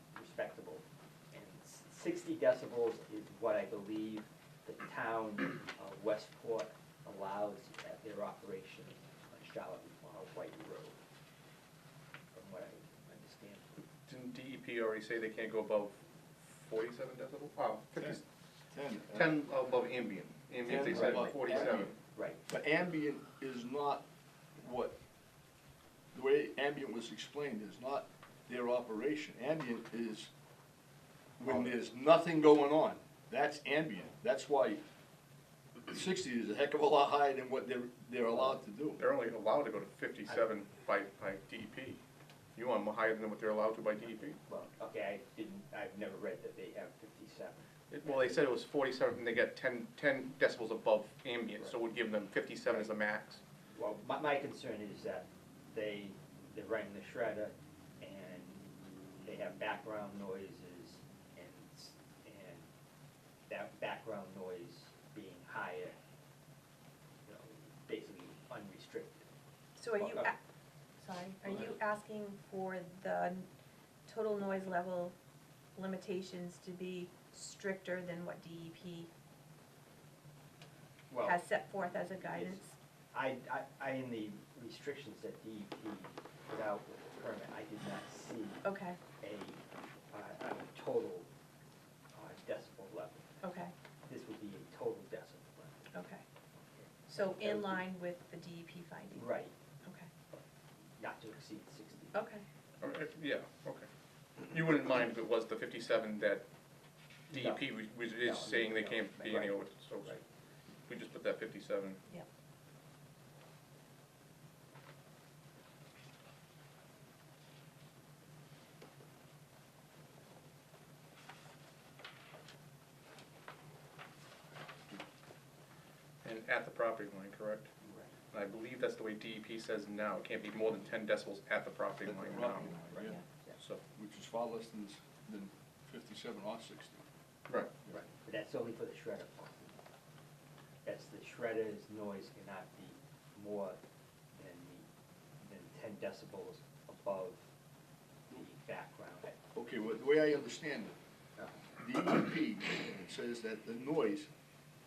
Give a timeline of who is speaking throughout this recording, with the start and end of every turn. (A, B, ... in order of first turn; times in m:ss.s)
0:00.1-0:11.0 A
0:12.3-0:13.8 A
0:14.1-0:18.2 B
0:18.7-0:19.3 C
0:19.0-0:22.0 B
0:20.7-0:21.9 C
0:20.7-0:22.4 A
0:22.5-0:24.1 C
0:24.6-0:25.0 C
0:26.1-0:30.3 C
0:31.4-0:34.8 C
0:31.4-0:31.7 A
0:35.8-0:39.0 C
0:39.0-0:42.0 B
0:42.6-0:44.4 B
0:44.0-0:48.4 A
0:47.9-0:53.4 B
0:52.7-0:52.9 A
0:53.7-0:58.6 A
0:59.2-1:02.7 A
1:03.5-1:06.0 A
1:07.2-1:09.3 A
1:09.8-1:10.4 D
1:10.0-1:10.3 A
1:11.0-1:13.5 D
1:11.5-1:11.8 A
1:14.1-1:15.1 D
1:15.8-1:19.1 D
1:21.1-1:21.5 A
1:21.2-1:22.7 D
1:22.0-1:22.6 A
1:23.1-1:28.6 A
1:28.6-1:29.0 D
1:29.2-1:29.6 A
1:30.1-1:31.3 A
1:32.1-1:33.6 A
1:33.4-1:33.7 D
1:34.1-1:35.9 A
1:35.9-1:36.2 D
1:36.8-1:37.9 A
1:37.1-1:40.1 D
1:39.1-1:39.6 A
1:41.0-1:42.3 A
1:42.1-1:42.4 D
1:42.8-1:43.9 B
1:44.5-1:46.4 B
1:47.3-1:50.2 B
1:47.4-1:47.6 A
1:48.2-1:50.2 A
1:50.9-1:52.0 B
2:06.2-2:07.7 B
2:07.8-2:08.1 A
2:08.3-2:12.8 B
2:12.0-2:13.2 C
2:13.6-2:13.8 B
2:13.9-2:17.0 C
2:17.9-2:19.8 A
2:20.8-2:23.8 A
2:24.4-2:24.9 A
2:25.4-2:27.4 A
2:28.3-2:29.4 A
2:29.6-2:31.0 C
2:31.8-2:34.3 C